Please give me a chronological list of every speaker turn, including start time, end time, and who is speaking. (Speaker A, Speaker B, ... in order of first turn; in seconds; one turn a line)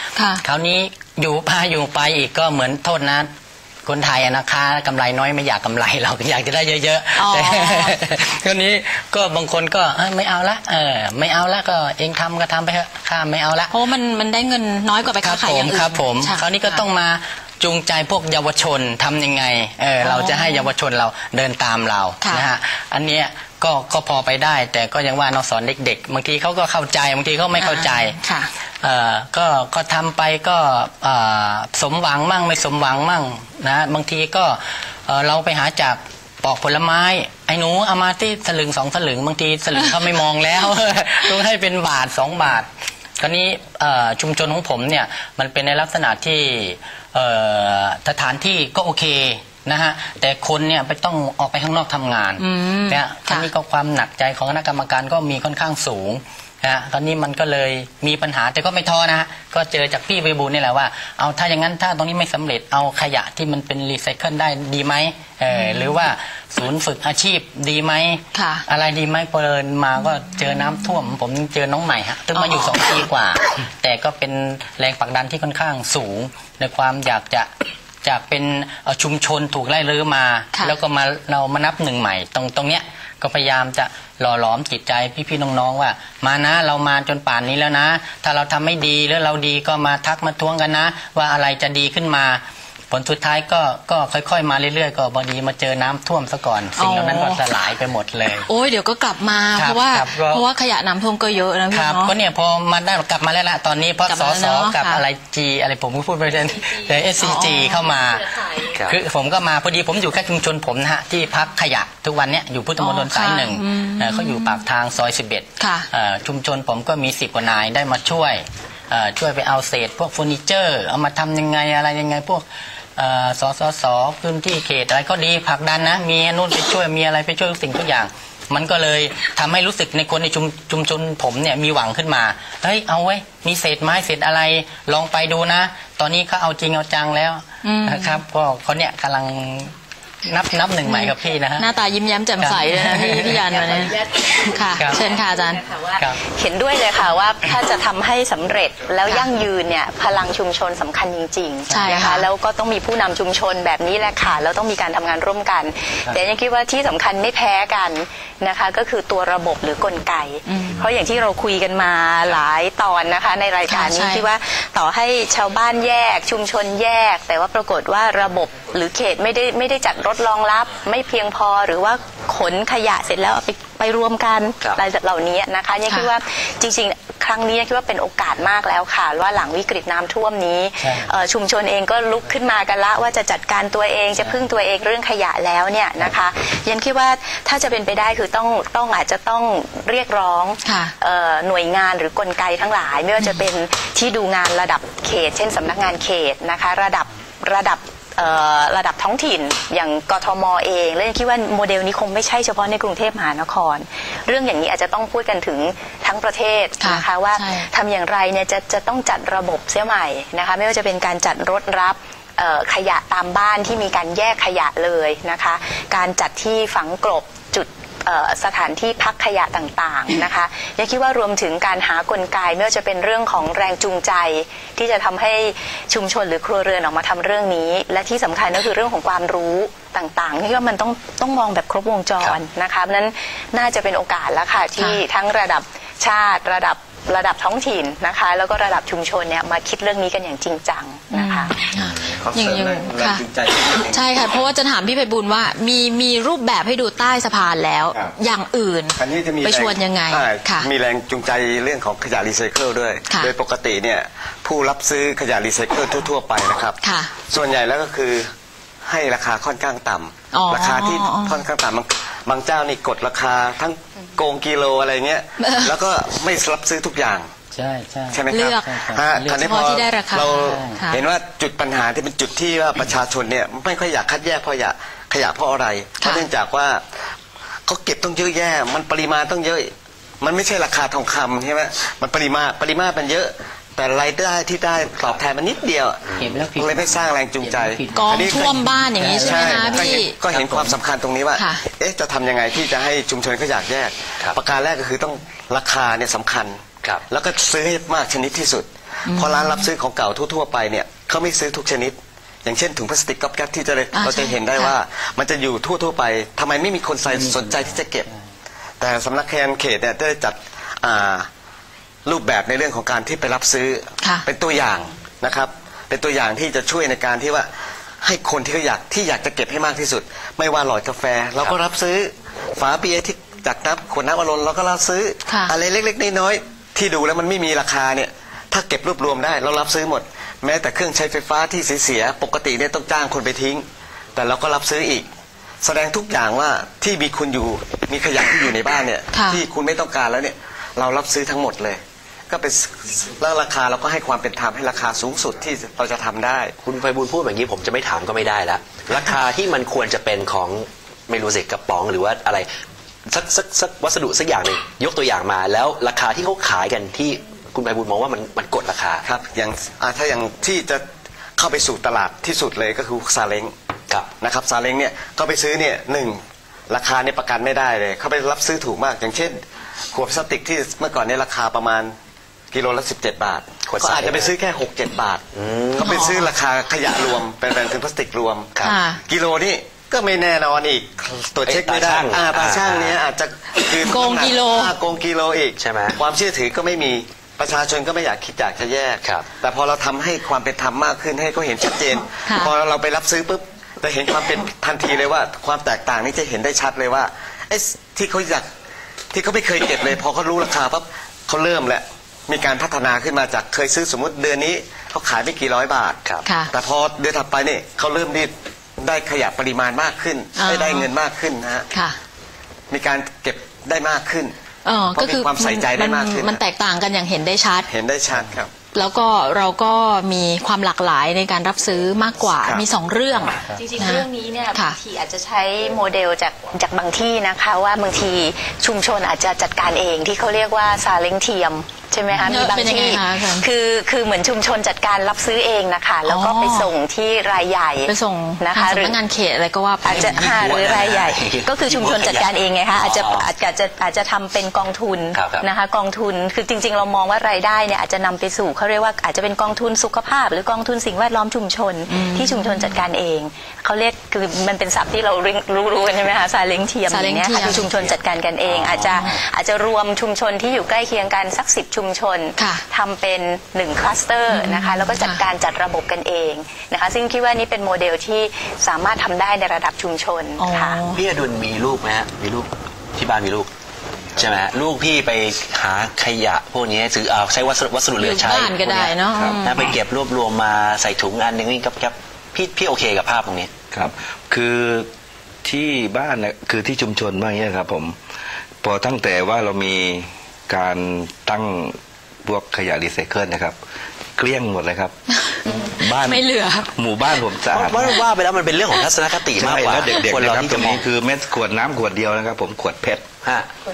Speaker A: 0.1-0.4
Speaker B: 0.4-3.3
Speaker B: 3.8-13.7
Speaker A: 7.2-8.0
Speaker A: 13.7-16.8
Speaker B: 15.2-28.2
Speaker A: 20.0-20.7
Speaker A: 22.2-22.5
Speaker A: 27.6-28.5
Speaker B: 28.8-42.7
Speaker B: 43.2-77.5
Speaker A: 52.4-53.5
Speaker A: 65.5-65.9
Speaker A: 68.3-68.6
Speaker A: 72.3-73.0
Speaker B: 78.0-98.5
Speaker A: 96.8-97.4
Speaker A: 98.5-102.1
Speaker B: 99.5-100.4
Speaker B: 101.7-122.4
Speaker A: 104.1-105.0
Speaker A: 107.2-107.9
Speaker C: 108.7-109.0
Speaker A: 112.8-114.6
Speaker A: 115.6-115.9
Speaker B: 123.0-139.7
Speaker A: 137.6-138.2
Speaker B: 140.2-141.7
Speaker A: 140.8-145.7
Speaker B: 142.4-143.4
Speaker B: 144.8-145.0
Speaker D: 145.7-241.6
Speaker A: 151.7-152.3
Speaker A: 160.4-160.8
Speaker A: 163.7-164.3
Speaker B: 180.8-181.1
Speaker A: 190.6-190.9
Speaker A: 206.8-207.7
Speaker A: 234.8-235.0
Speaker A: 241.1-250.7
Speaker C: 241.8-242.2
Speaker E: 242.2-244.2
Speaker E: 249.0-258.3
Speaker A: 253.1-253.3
Speaker A: 256.8-257.1
Speaker E: 258.8-267.3
Speaker A: 260.3-261.4
Speaker A: 265.4-265.7
Speaker B: 267.5-269.4
Speaker E: 268.1-276.8
Speaker A: 268.3-268.8
Speaker A: 269.3-271.0
Speaker B: 270.4-270.8
Speaker A: 276.0-276.3
Speaker E: 277.6-286.1
Speaker B: 286.2-290.8
Speaker E: 286.6-288.6
Speaker A: 287.9-290.2
Speaker E: 289.2-308.1
Speaker A: 291.3-291.6
Speaker A: 299.1-299.7
Speaker A: 303.9-304.8
Speaker B: 307.1-307.7
Speaker E: 308.8-311.3
Speaker E: 312.0-335.1
Speaker A: 325.3-325.5
Speaker E: 335.6-346.5
Speaker A: 339.1-339.4
Speaker C: 346.6-352.5
Speaker C: 353.1-359.0
Speaker E: 359.0-363.5
Speaker E: 364.2-371.9
Speaker E: 372.5-375.2
Speaker C: 373.6-374.3
Speaker C: 375.3-375.8
Speaker E: 375.8-378.5
Speaker A: 375.8-376.3
Speaker A: 378.6-379.0
Speaker E: 379.0-398.5
Speaker C: 381.4-382.9
Speaker A: 383.7-384.7
Speaker C: 385.6-386.0
Speaker C: 389.0-389.3
Speaker A: 392.2-392.5
Speaker E: 399.1-406.0
Speaker A: 406.2-406.5
Speaker E: 406.5-411.7
Speaker A: 410.4-410.9
Speaker A: 411.7-412.0
Speaker E: 412.7-414.3
Speaker A: 414.6-417.7
Speaker E: 414.9-416.4
Speaker E: 417.7-418.5
Speaker A: 418.7-424.8
Speaker E: 422.4-422.6
Speaker D: 423.5-439.0
Speaker A: 432.2-433.5
Speaker A: 436.0-436.7
Speaker A: 437.9-440.4
Speaker D: 439.8-470.8
Speaker C: 439.9-443.3
Speaker C: 445.1-445.5
Speaker A: 451.9-452.7
Speaker A: 456.9-457.7
Speaker C: 458.4-459.2
Speaker A: 458.9-459.1
Speaker A: 462.4-462.6
Speaker A: 464.3-465.2
Speaker A: 470.4-471.0
Speaker C: 470.9-473.5
Speaker C: 474.1-483.5
Speaker A: 478.0-479.7
Speaker F: 479.1-479.5
Speaker F: 483.7-484.9
Speaker F: 485.4-488.0
Speaker F: 488.6-493.6
Speaker F: 494.1-494.9
Speaker A: 495.2-496.7
Speaker F: 495.5-498.0
Speaker C: 497.6-500.9
Speaker F: 499.3-503.1
Speaker C: 503.2-503.5